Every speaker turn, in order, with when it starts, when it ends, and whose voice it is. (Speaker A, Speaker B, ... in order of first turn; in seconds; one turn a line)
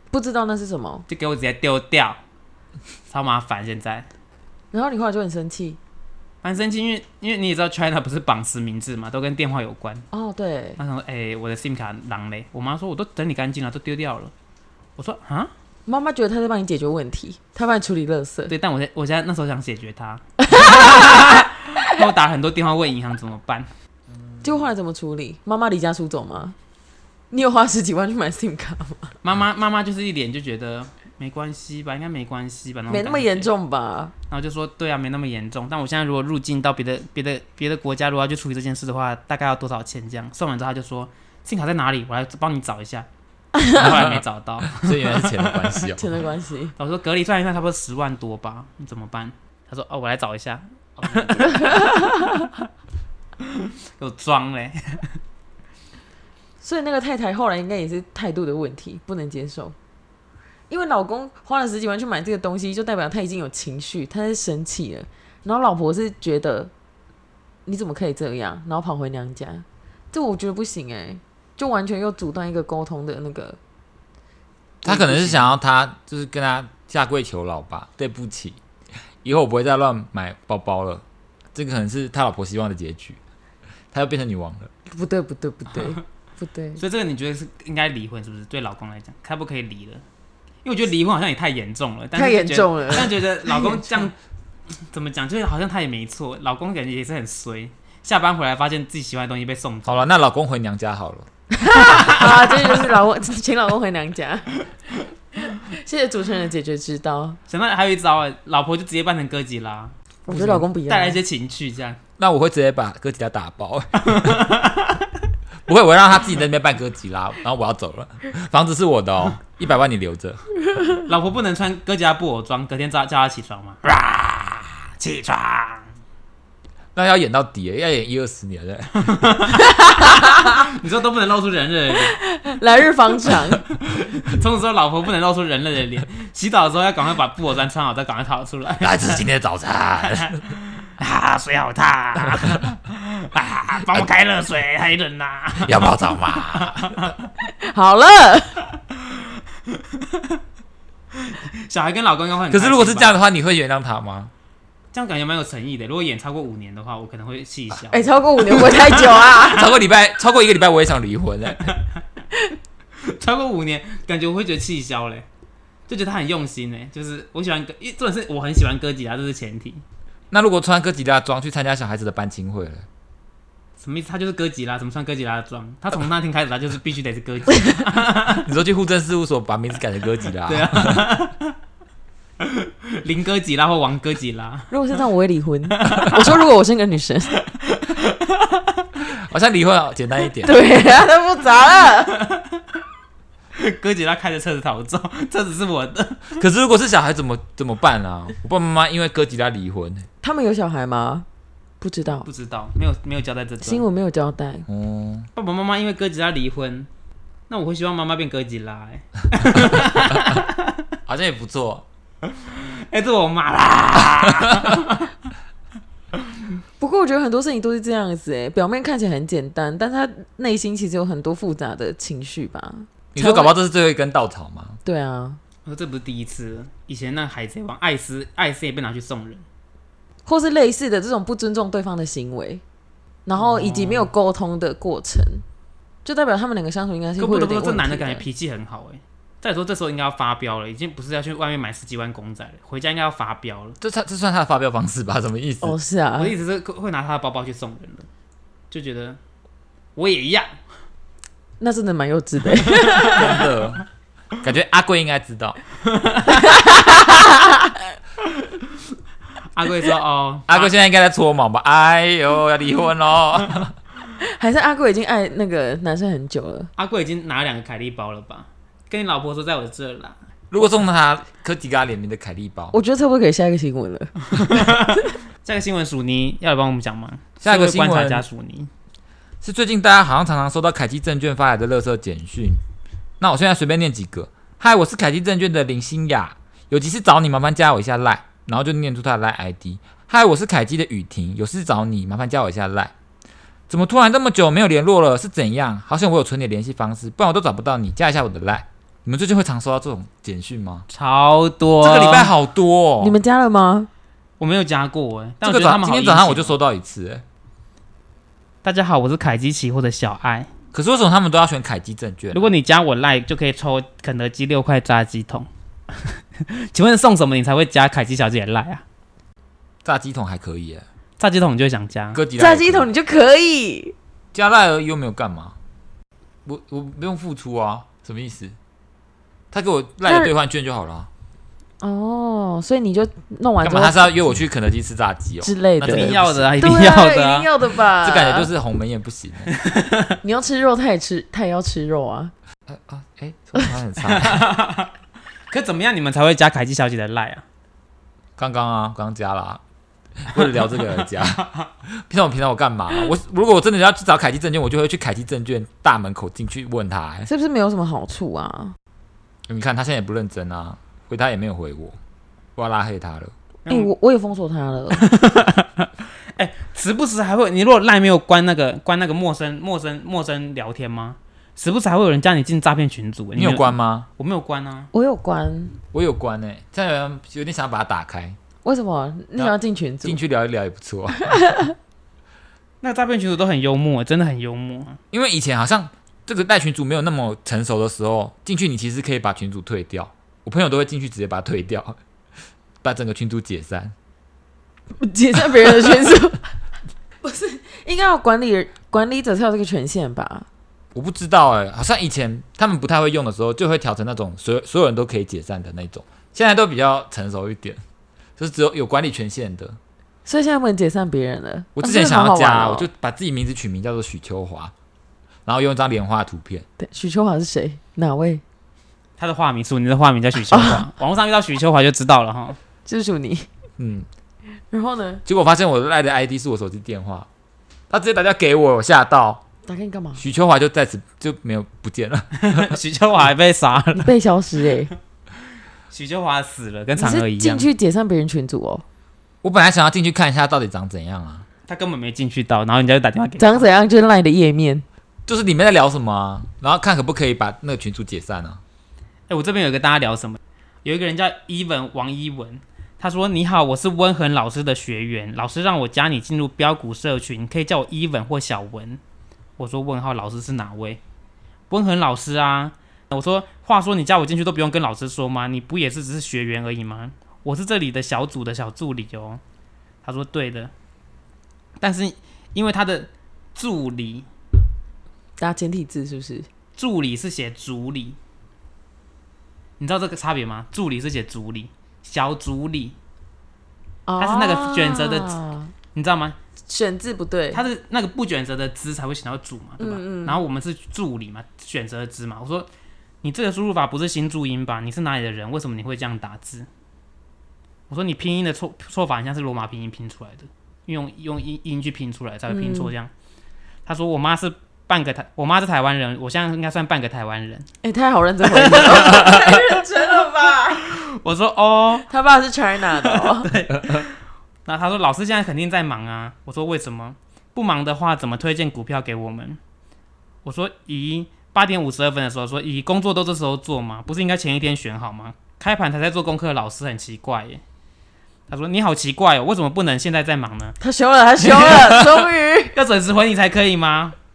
Speaker A: 0.1-1.1
Speaker B: 1.1-2.2
Speaker B: 3.1-4.1
Speaker A: 4.7-5.8
Speaker B: 6.4-10.1
Speaker A: 10.1-10.8
Speaker B: 10.8-14.3
Speaker B: 15.0-15.5
Speaker A: 15.9-18.5
Speaker B: 18.5-23.7
Speaker A: 20.4-21.9
Speaker A: 24.4-26.6
Speaker A: 27.3-29.1
Speaker B: 29.2-33.5
Speaker A: 32.9-34.1
Speaker B: 34.3-43.1
Speaker A: 43.5-43.8
Speaker B: 43.7-45.9
Speaker C: 43.8-46.1
Speaker A: 45.9-46.7
Speaker B: 46.8-52.1
Speaker A: 51.4-52.5
Speaker B: 53.4-55.2
Speaker A: 56.6-59.8
Speaker A: 60.7-66.7
Speaker A: 67.7-73.6
Speaker C: 74.8-78.6
Speaker A: 74.8-75.5
Speaker C: 79.2-81.0
Speaker C: 81.5-83.2
Speaker C: 83.9-84.7
Speaker A: 84.9-86.8
Speaker B: 86.8-90.0
Speaker B: 90.6-94.1
Speaker A: 92.1-94.0
Speaker B: 94.8-100.1
Speaker C: 99.8-101.3
Speaker A: 101.5-104.6
Speaker B: 102.0-102.8
Speaker A: 105.4-107.4
Speaker B: 107.5-112.0
Speaker A: 110.3-111.2
Speaker C: 112.2-114.5
Speaker B: 114.0-115.1
Speaker C: 115.7-120.4
Speaker B: 121.0-125.8
Speaker C: 126.9-129.1
Speaker B: 129.0-132.2
Speaker A: 129.6-130.6
Speaker A: 132.1-133.7
Speaker B: 133.3-139.2
Speaker C: 138.8-140.4
Speaker B: 140.2-147.2
Speaker C: 145.6-147.0
Speaker A: 147.5-148.7
Speaker B: 148.9-150.4
Speaker B: 151.1-153.2
Speaker C: 152.5-154.3
Speaker B: 154.9-159.2
Speaker A: 157.9-159.8
Speaker C: 159.3-161.7
Speaker B: 163.0-165.2
Speaker B: 165.9-169.8
Speaker C: 170.3-172.8
Speaker B: 173.8-178.4
Speaker C: 178.4-181.0
Speaker B: 180.4-181.5
Speaker B: 182.4-184.7
Speaker A: 184.7-187.4
Speaker B: 185.8-186.2
Speaker B: 187.5-188.6
Speaker C: 189.0-190.6
Speaker A: 190.4-192.2
Speaker B: 192.0-192.6
Speaker B: 193.5-196.4
Speaker C: 196.3-200.1
Speaker A: 200.2-201.2
Speaker A: 201.8-202.3
Speaker B: 202.2-203.8
Speaker A: 203.6-204.7
Speaker C: 204.7-205.3
Speaker B: 205.3-206.9
Speaker B: 207.5-210.8
Speaker C: 211.1-211.8
Speaker B: 212.2-215.1
Speaker A: 216.8-223.5
Speaker C: 223.1-224.8
Speaker A: 224.8-225.4
Speaker B: 225.7-229.4
Speaker A: 230.2-232.6
Speaker A: 233.2-235.4
Speaker B: 233.3-234.1
Speaker A: 236.0-238.2
Speaker B: 237.2-243.8
Speaker C: 243.8-245.8
Speaker A: 245.6-246.3
Speaker B: 246.2-248.1
Speaker B: 248.7-249.2
Speaker B: 249.9-250.6
Speaker A: 251.6-253.4
Speaker B: 252.8-253.5
Speaker C: 253.0-253.8
Speaker C: 254.4-255.6
Speaker B: 255.9-256.8
Speaker A: 256.3-257.8
Speaker B: 259.5-260.7
Speaker C: 260.5-263.7
Speaker A: 264.2-266.7
Speaker B: 266.8-270.2
Speaker C: 270.5-272.7
Speaker A: 272.7-274.1
Speaker B: 274.3-278.7
Speaker C: 277.4-278.2
Speaker C: 279.4-282.6
Speaker C: 283.2-292.9
Speaker C: 293.7-300.9
Speaker B: 300.9-302.3
Speaker C: 301.8-303.1
Speaker A: 303.0-303.9
Speaker B: 304.4-306.6
Speaker C: 305.4-307.2
Speaker B: 308.6-310.5
Speaker C: 310.7-312.5
Speaker B: 312.3-315.5
Speaker B: 316.1-318.8
Speaker C: 319.8-320.8
Speaker B: 321.2-322.2
Speaker C: 322.1-322.9
Speaker A: 322.4-323.9
Speaker C: 324.3-325.6
Speaker C: 326.4-328.6
Speaker C: 329.5-331.1
Speaker A: 330.0-330.3
Speaker A: 331.8-334.1
Speaker C: 333.6-336.6
Speaker A: 335.4-338.5
Speaker B: 335.9-337.5
Speaker C: 338.0-339.5
Speaker B: 339.5-340.2
Speaker A: 340.2-342.3
Speaker C: 342.7-344.5
Speaker B: 344.0-344.9
Speaker B: 345.5-347.4
Speaker C: 348.4-349.6
Speaker C: 350.2-357.3
Speaker B: 350.3-351.7
Speaker A: 357.2-358.8
Speaker C: 359.5-362.0
Speaker C: 362.6-363.3
Speaker B: 363.6-363.9
Speaker A: 363.7-365.0
Speaker B: 364.9-374.9
Speaker C: 373.4-374.1
Speaker A: 374.9-375.8
Speaker C: 375.9-378.4
Speaker A: 378.6-380.2
Speaker C: 379.4-381.3
Speaker A: 381.2-381.7
Speaker B: 382.8-385.0
Speaker C: 385.1-392.0
Speaker C: 392.8-393.9
Speaker A: 395.0-396.5
Speaker A: 397.2-400.5
Speaker C: 400.9-407.8
Speaker C: 408.4-409.8
Speaker A: 410.2-412.9
Speaker C: 411.7-414.7
Speaker C: 415.4-416.6
Speaker A: 416.8-418.4
Speaker B: 419.2-422.6
Speaker A: 420.5-420.9
Speaker A: 422.9-423.5
Speaker C: 423.8-424.1
Speaker A: 424.6-425.2
Speaker C: 425.2-427.3
Speaker C: 427.9-429.4
Speaker A: 429.6-430.2
Speaker C: 430.2-432.8
Speaker B: 432.4-434.1
Speaker A: 433.9-434.9
Speaker B: 435.9-437.7
Speaker A: 437.0-438.8
Speaker C: 439.4-441.4
Speaker B: 441.6-443.7
Speaker A: 443.4-444.8
Speaker C: 445.3-448.6
Speaker B: 449.3-459.0
Speaker B: 459.6-461.0
Speaker B: 461.7-469.4
Speaker B: 470.0-470.7
Speaker B: 471.8-474.3
Speaker A: 475.4-476.5
Speaker B: 476.8-478.2
Speaker B: 479.8-482.9
Speaker A: 484.1-485.7
Speaker B: 484.2-485.4
Speaker B: 485.9-486.4
Speaker A: 486.7-487.6
Speaker B: 487.5-492.7
Speaker A: 489.8-490.4
Speaker B: 493.2-496.7
Speaker B: 497.9-503.1
Speaker A: 502.5-502.9
Speaker B: 503.9-507.7
Speaker A: 507.8-510.9
Speaker B: 508.5-509.4
Speaker B: 510.7-512.1
Speaker A: 512.1-513.5
Speaker B: 512.9-519.6
Speaker B: 520.4-527.6
Speaker B: 528.5-530.8
Speaker A: 530.8-532.8
Speaker B: 531.4-534.1